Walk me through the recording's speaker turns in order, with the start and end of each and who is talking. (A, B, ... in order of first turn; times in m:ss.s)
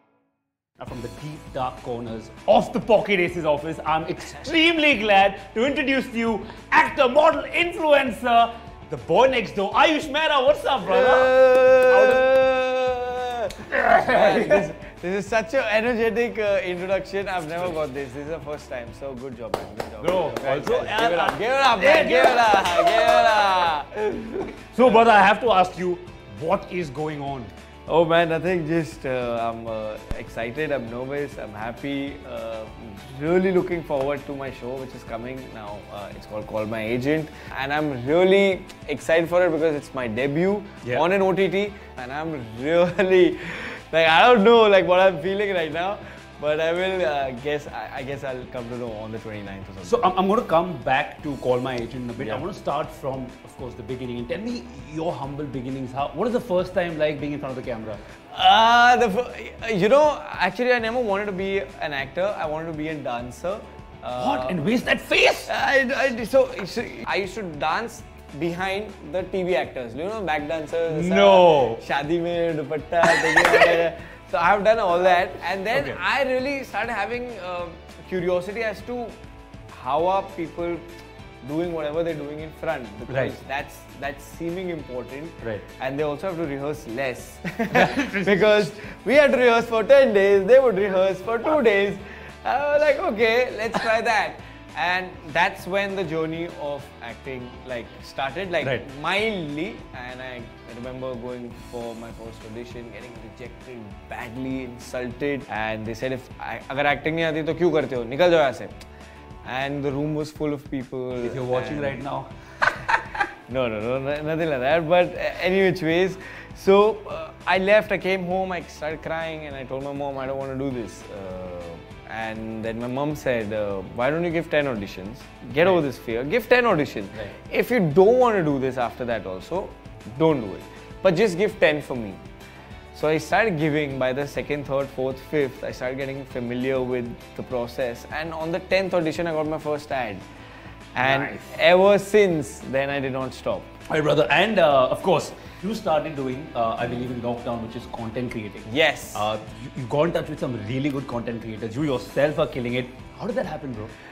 0:00.8-0:11.4 A
0:10.8-0:25.1 B
0:11.9-0:12.3 A
0:13.7-0:14.6 A
0:20.0-0:23.2 A
0:24.7-0:27.5 A
0:27.9-0:50.1 B
0:49.8-0:58.0 A
0:52.2-0:52.4 B
0:58.3-1:04.6 B
1:04.2-1:05.5 A
1:05.5-1:19.2 B
1:10.9-1:11.8 A
1:13.0-1:13.8 A
1:15.7-1:16.0 A
1:19.7-1:20.9 B
1:21.4-1:48.9 B
1:23.1-1:23.4 A
1:27.7-1:28.7 A
1:49.4-1:52.0 B
1:51.2-1:52.3 A
1:52.6-2:12.2 B
2:12.9-2:20.2 B
2:21.0-2:23.7 B
2:21.0-2:21.6 A
2:23.9-2:33.9 A
2:28.7-2:29.3 B